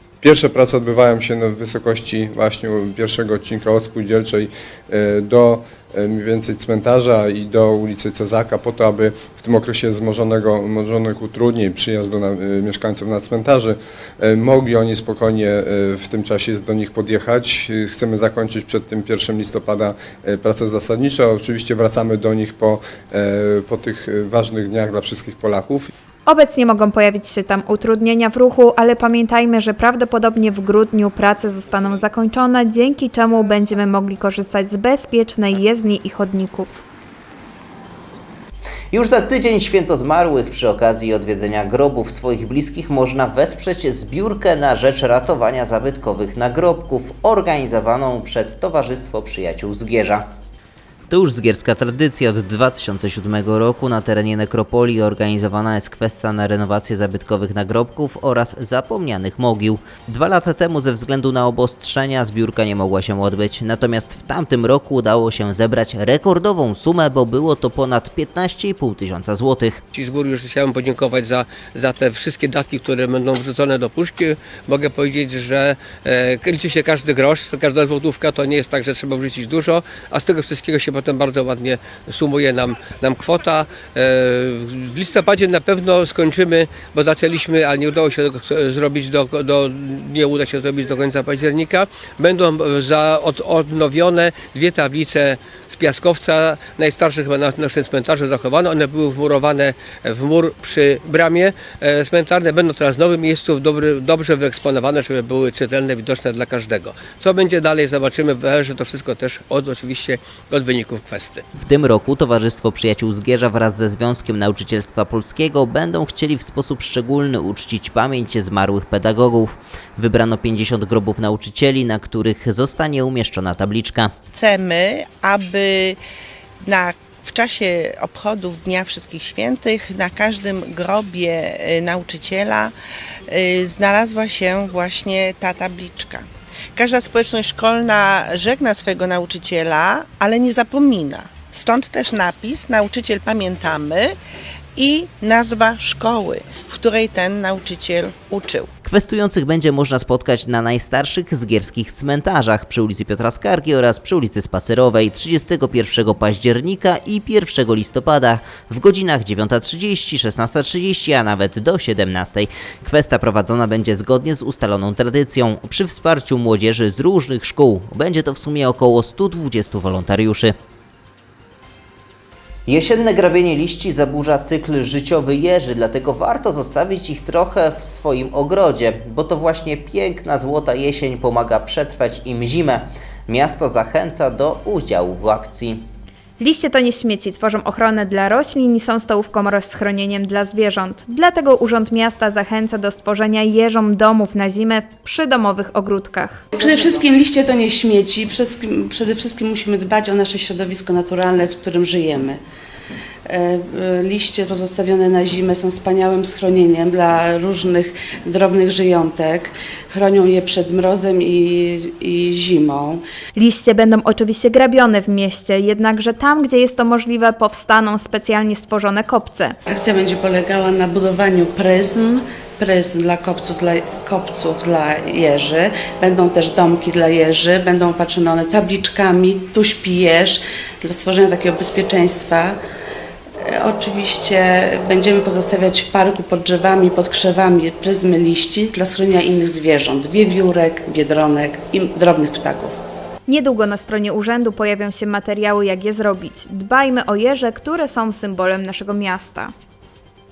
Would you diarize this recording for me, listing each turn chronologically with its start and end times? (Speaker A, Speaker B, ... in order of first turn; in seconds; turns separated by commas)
Speaker A: 0.2-25.9, Speaker B: 26.3-36.8, Speaker C: 38.9-50.3, Speaker C: 51.1-69.8, Speaker D: 69.9-111.4, Speaker C: 111.5-124.1, Speaker E: 124.3-126.0, Speaker E: 126.6-132.7, Speaker E: 133.3-144.2, Speaker E: 144.8-148.7, Speaker C: 148.8-170.6, Speaker C: 172.7-185.8, Speaker B: 186.4-196.4, Speaker F: 196.5-202.4, Speaker F: 203.3-213.0, Speaker B: 213.3-219.6, Speaker F: 219.7-232.6, Speaker F: 233.4-242.8, Speaker B: 243.3-249.5